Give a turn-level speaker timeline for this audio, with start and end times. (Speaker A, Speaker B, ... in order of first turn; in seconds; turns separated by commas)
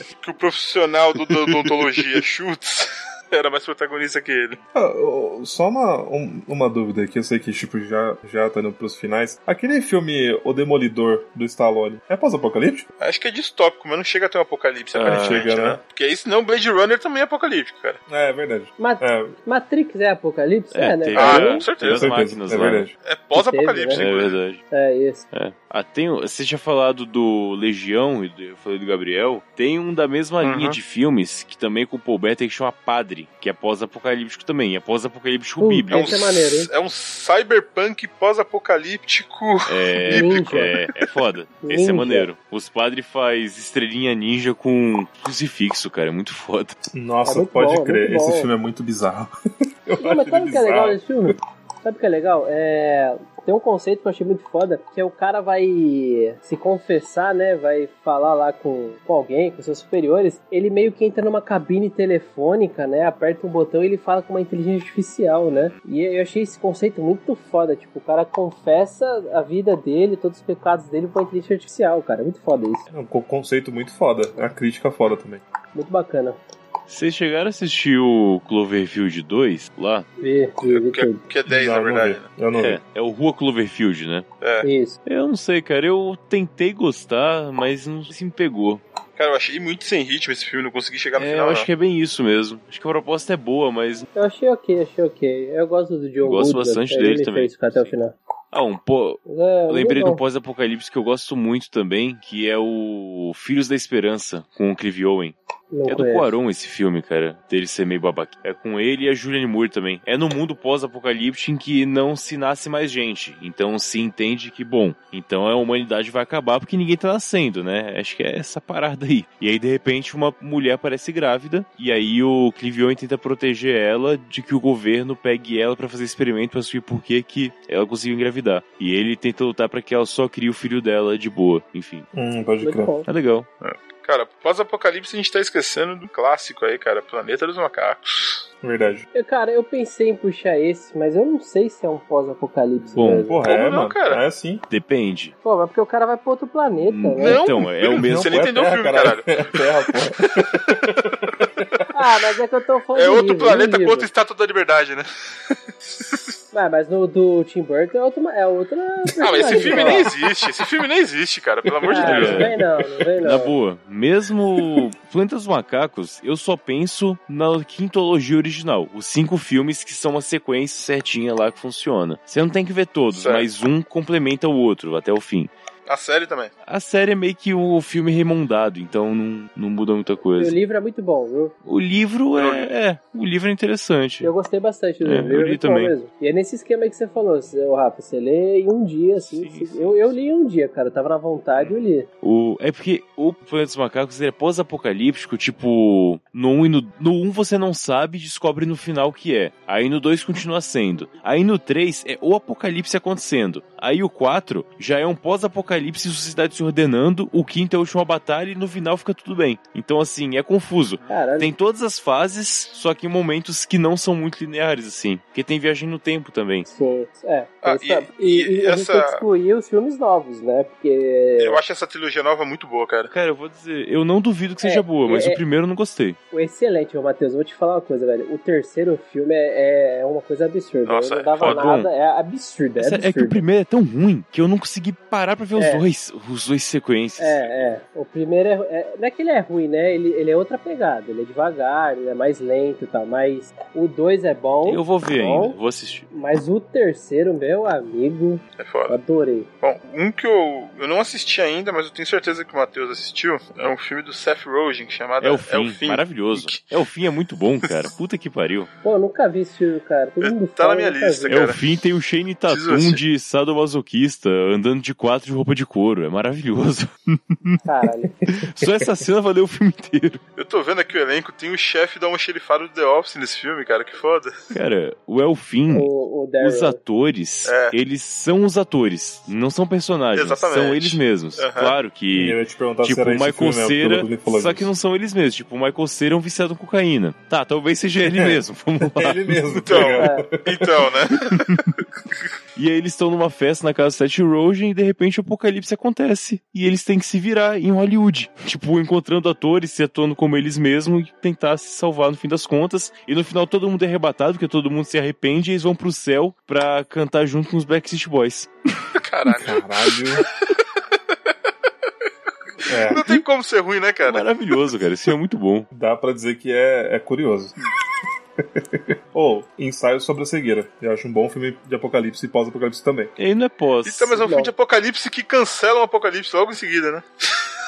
Speaker A: 0.2-4.6, Speaker B: 4.7-12.9, Speaker A: 13.0-18.0, Speaker C: 14.9-15.4, Speaker B: 15.0-15.8, Speaker B: 18.1-19.4, Speaker D: 18.8-21.7, Speaker C: 20.7-22.9, Speaker A: 21.1-22.2, Speaker B: 21.8-22.9, Speaker A: 23.0-24.4, Speaker D: 23.3-24.1, Speaker C: 23.9-24.6, Speaker D: 24.7-25.2, Speaker C: 25.3-36.2, Speaker A: 30.4-30.8, Speaker D: 35.6-36.7, Speaker A: 35.9-40.8, Speaker C: 39.6-46.7, Speaker D: 40.1-40.7, Speaker D: 41.6-42.3, Speaker B: 46.9-49.3, Speaker D: 47.2-48.5, Speaker B: 49.9-51.3, Speaker D: 50.0-72.8, Speaker C: 65.5-65.7, Speaker B: 72.9-75.4, Speaker D: 75.7-76.4, Speaker C: 76.9-80.1, Speaker D: 80.2-81.2, Speaker A: 80.7-82.3, Speaker B: 81.5-82.8, Speaker C: 82.5-84.2, Speaker A: 84.4-84.7, Speaker D: 84.6-85.0, Speaker C: 85.0-88.8, Speaker A: 89.2-91.7, Speaker C: 91.1-94.0, Speaker D: 94.1-98.1, Speaker C: 96.2-97.9, Speaker C: 98.5-105.3, Speaker D: 99.3-100.2, Speaker D: 105.7-106.3, Speaker C: 105.9-132.1, Speaker B: 132.1-132.9, Speaker D: 132.6-133.1, Speaker C: 133.1-133.5, Speaker A: 133.6-138.5, Speaker B: 138.6-139.0, Speaker D: 139.1-143.4, Speaker C: 142.9-143.3, Speaker B: 143.3-144.6, Speaker A: 143.4-144.2, Speaker C: 144.7-145.3, Speaker D: 145.4-147.4, Speaker C: 146.8-148.4, Speaker A: 147.2-150.7, Speaker B: 148.0-151.8, Speaker D: 151.9-154.1, Speaker A: 152.9-156.3, Speaker D: 156.5-160.1, Speaker A: 159.2-162.5, Speaker B: 159.5-159.9, Speaker D: 161.9-163.6, Speaker C: 162.0-162.5, Speaker B: 162.4-162.7, Speaker C: 163.2-175.5, Speaker A: 173.1-173.5, Speaker A: 175.9-176.5, Speaker C: 176.7-180.6, Speaker D: 180.4-181.5, Speaker C: 181.6-184.3, Speaker A: 182.3-182.7, Speaker D: 184.2-192.1, Speaker C: 185.0-185.9, Speaker C: 189.2-190.1, Speaker C: 191.6-216.7, Speaker D: 211.1-211.5, Speaker D: 216.7-221.6, Speaker A: 217.6-219.2, Speaker A: 221.4-223.1, Speaker C: 223.1-226.2, Speaker D: 224.6-225.4, Speaker D: 226.3-233.4, Speaker A: 230.8-231.7, Speaker C: 231.4-231.9, Speaker C: 232.8-237.5, Speaker D: 235.5-235.8, Speaker D: 237.2-245.6, Speaker C: 244.6-246.1, Speaker D: 246.1-249.5, Speaker A: 248.6-249.0, Speaker A: 249.6-256.7, Speaker C: 255.2-258.7, Speaker D: 258.8-261.4, Speaker A: 260.2-261.6, Speaker C: 261.3-267.6, Speaker A: 262.5-263.0, Speaker D: 267.6-268.1, Speaker B: 268.2-269.0, Speaker C: 268.3-270.2, Speaker A: 270.4-274.5, Speaker C: 274.5-289.6, Speaker D: 275.7-276.8, Speaker A: 277.4-277.8, Speaker A: 280.1-281.7, Speaker B: 282.1-284.7, Speaker B: 288.1-290.9, Speaker A: 289.6-291.7, Speaker D: 290.0-290.3, Speaker C: 292.6-308.5, Speaker A: 309.0-310.3, Speaker B: 309.4-310.2, Speaker A: 312.6-314.2, Speaker B: 312.7-313.1, Speaker C: 312.9-313.2, Speaker C: 314.0-315.7, Speaker B: 315.7-317.5, Speaker B: 318.4-323.1, Speaker C: 323.2-324.3, Speaker A: 323.8-327.5, Speaker D: 324.2-324.5